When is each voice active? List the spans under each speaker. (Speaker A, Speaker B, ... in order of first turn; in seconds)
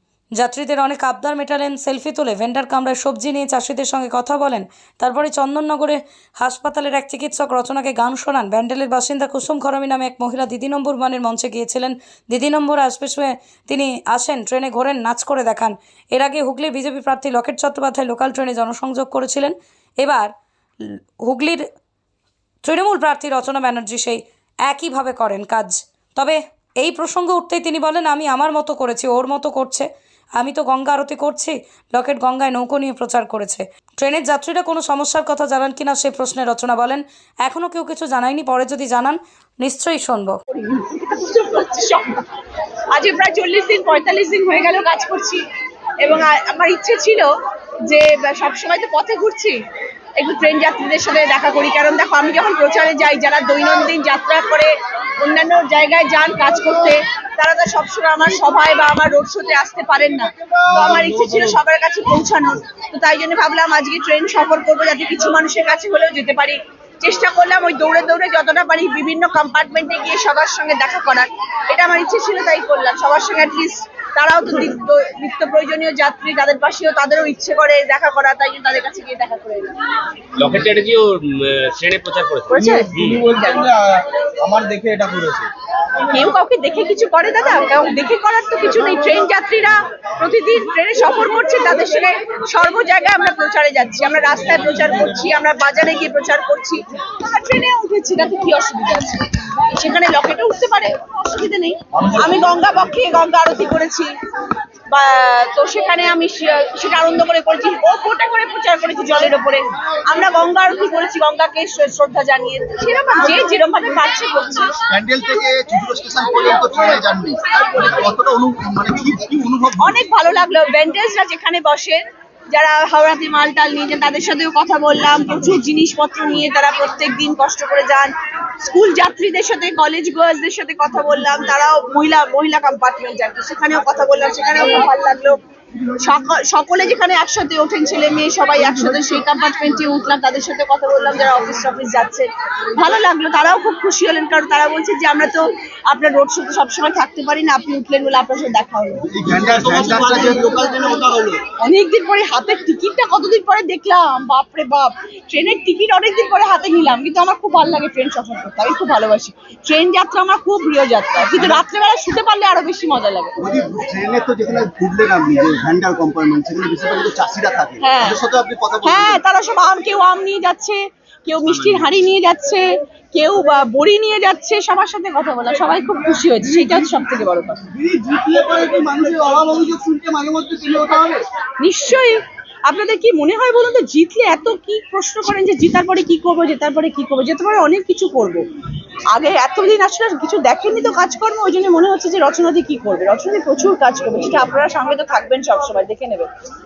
Speaker A: 0.4-20.3, 21.2-21.6, 22.6-40.4
Speaker B: 40.5-42.3, 42.9-45.4, 46.0-47.3, 47.9-49.6, 50.2-79.7, 82.5-83.7, 86.1-99.2, 99.8-104.1, 104.9-114.8, 119.8-135.4, 136.0-149.1, 151.6-163.3, 167.8-168.2, 168.8-177.6, 181.6-188.5, 189.1-196.3
Speaker C: 80.4-83.2, 171.4-172.0
Speaker D: 83.0-85.5, 102.0-102.5, 114.9-120.0, 149.1-151.4, 163.4-169.2, 177.7-181.2